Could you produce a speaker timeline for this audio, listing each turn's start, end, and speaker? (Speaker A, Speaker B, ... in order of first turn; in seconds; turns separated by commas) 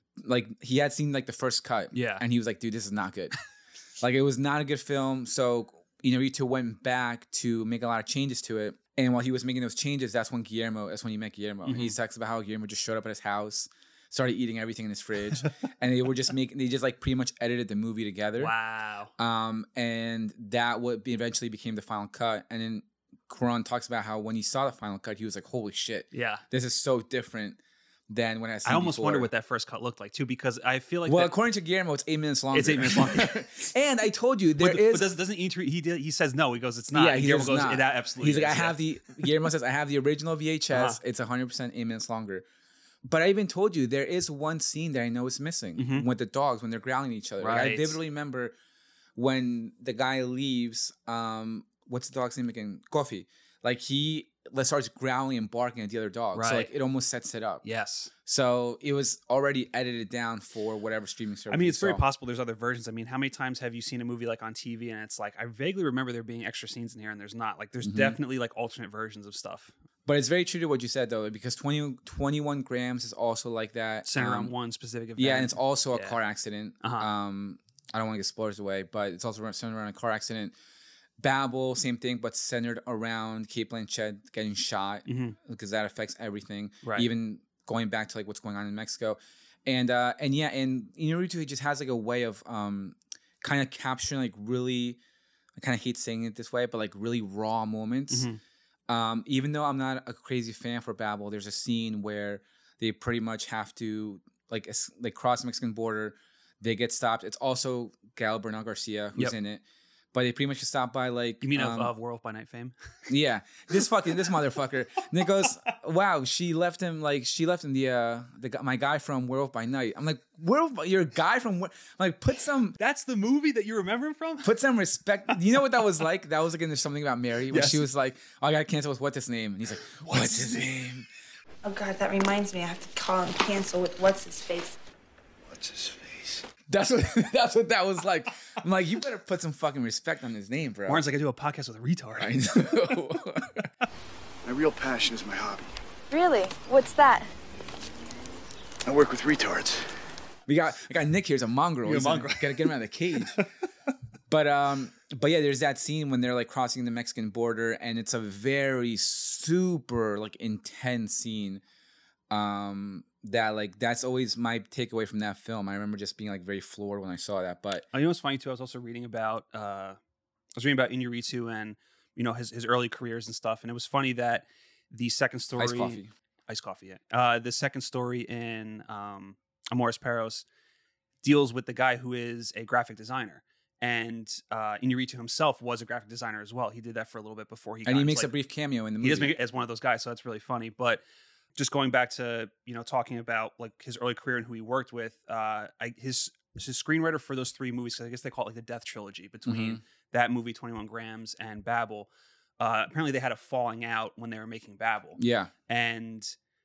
Speaker A: 0.2-3.4, Speaker B: 1.9-2.2, Speaker A: 4.0-18.5, Speaker B: 11.7-11.9, Speaker B: 18.4-19.1, Speaker A: 19.2-29.3, Speaker B: 26.1-26.4, Speaker B: 28.6-31.3, Speaker A: 31.1-35.1, Speaker B: 32.5-33.4, Speaker B: 34.6-39.3, Speaker A: 36.9-42.4, Speaker B: 40.7-41.0, Speaker A: 43.0-48.5, Speaker B: 45.8-46.1, Speaker B: 47.4-48.0, Speaker A: 49.1-57.6, Speaker B: 56.3-56.7, Speaker B: 57.6-58.1, Speaker A: 58.2-62.0, Speaker B: 61.5-69.7, Speaker A: 67.8-68.2, Speaker A: 70.0-74.5, Speaker B: 74.0-76.2, Speaker A: 75.2-80.5, Speaker B: 76.8-77.1, Speaker A: 81.2-95.0, Speaker B: 85.1-85.3, Speaker B: 86.8-87.1, Speaker A: 95.6-98.3, Speaker B: 98.1-98.4, Speaker A: 98.9-109.6, Speaker A: 110.1-111.9, Speaker B: 111.4-112.7, Speaker A: 113.1-122.8, Speaker B: 122.8-124.5, Speaker A: 124.4-131.1, Speaker B: 127.5-127.8, Speaker C: 131.6-134.8, Speaker D: 135.5-136.5, Speaker A: 136.7-141.0, Speaker B: 140.8-142.4, Speaker A: 142.2-143.7, Speaker D: 144.4-145.6, Speaker C: 146.1-147.3, Speaker D: 148.8-149.9, Speaker A: 150.5-153.4, Speaker B: 151.8-152.7, Speaker A: 154.3-161.6, Speaker A: 162.3-167.9, Speaker B: 167.9-170.0, Speaker B: 170.6-180.4, Speaker A: 175.6-176.1, Speaker B: 181.2-188.3, Speaker A: 187.8-189.3, Speaker B: 189.0-191.0, Speaker B: 191.6-202.1, Speaker A: 199.4-199.8, Speaker B: 202.6-206.3, Speaker A: 205.2-205.5